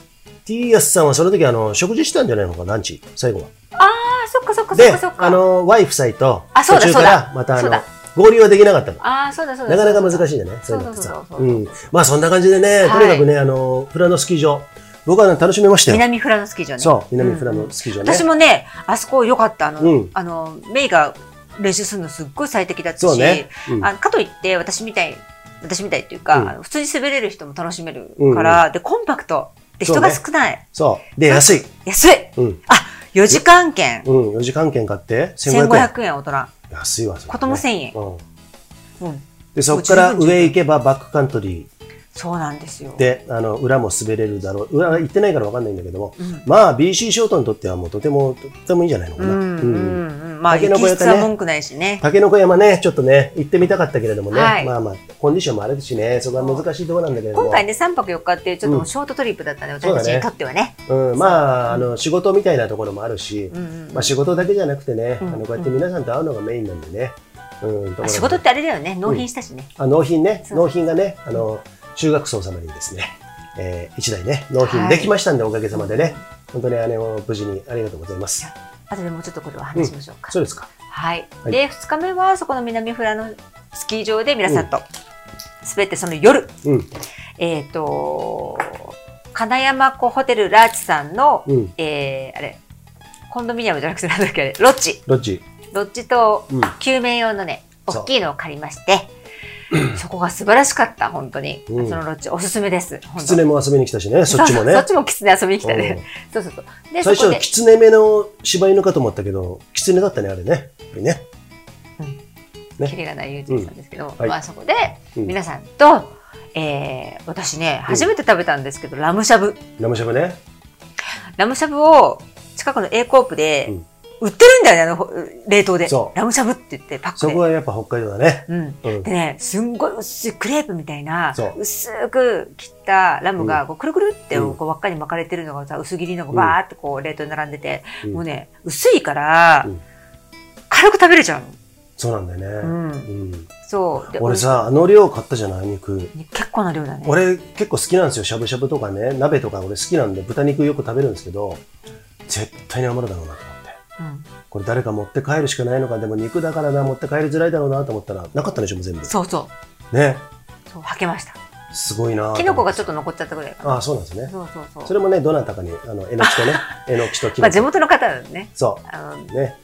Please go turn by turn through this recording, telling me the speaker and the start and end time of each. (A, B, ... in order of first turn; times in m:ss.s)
0:00.5-0:03.5 A
0:03.8-0:05.4 B
0:04.7-0:09.0 A
0:06.5-0:07.8 B
0:09.0-0:11.7 B
0:09.7-0:16.0 A
0:12.8-0:13.3 B
0:15.9-0:30.7 B
0:16.8-0:18.3 A
0:19.8-0:20.1 A
0:23.0-0:23.9 A
0:28.2-0:28.6 A
0:29.8-0:30.2 A
0:30.7-0:31.7 A
0:31.3-0:34.1 B
0:34.0-0:35.9 A
0:35.5-0:36.5 B
0:36.7-0:38.2 A
0:37.3-0:38.0 B
0:39.0-0:40.6 B
0:39.6-0:41.7 A
0:42.1-0:43.0 B
0:43.0-0:51.3 A
0:46.2-0:46.4 B
0:49.2-0:52.0 B
0:52.0-0:57.6 A
0:54.3-0:54.7 B
0:56.4-0:56.7 B
0:57.3-1:01.9 B
0:59.8-1:00.3 A
1:00.9-1:08.4 A
1:03.5-1:04.2 B
1:05.2-1:05.8 B
1:08.0-1:09.7 B
1:09.8-1:18.5 A
1:14.6-1:15.1 B
1:15.7-1:16.2 B
1:18.4-1:24.8 B
1:19.8-1:20.7 A
1:25.6-1:26.6 B
1:26.6-1:26.9 A
1:27.4-1:32.6 B
1:31.5-1:31.7 A
1:33.3-1:35.0 B
1:35.1-1:35.4 A
1:35.7-1:39.1 B
1:39.7-1:40.0 A
1:39.8-1:43.4 B
1:41.7-1:42.0 A
1:43.2-1:44.9 A
1:44.3-1:47.4 B
1:45.6-1:46.0 A
1:47.0-1:51.2 A
1:52.8-1:59.6 B
1:53.5-1:54.4 A
1:59.8-2:00.4 A
2:01.4-2:07.4 B
2:05.9-2:06.1 A
2:07.2-2:09.1 A
2:08.5-2:19.7 B
2:20.7-2:21.6 B
2:22.0-2:23.5 A
2:22.6-2:23.1 B
2:23.6-2:24.7 B
2:24.1-2:26.1 A
2:26.1-2:27.2 B
2:27.0-2:31.6 A
2:32.3-2:33.8 A
2:34.0-2:34.3 B
2:34.5-2:39.1 A
2:39.0-2:39.5 B
2:39.9-2:40.3 A
2:40.7-2:41.4 B
2:41.7-2:42.9 A
2:42.4-2:44.9 B
2:43.6-2:44.3 A
2:44.9-2:47.7 A
2:46.2-2:49.3 B
2:48.6-2:49.6 A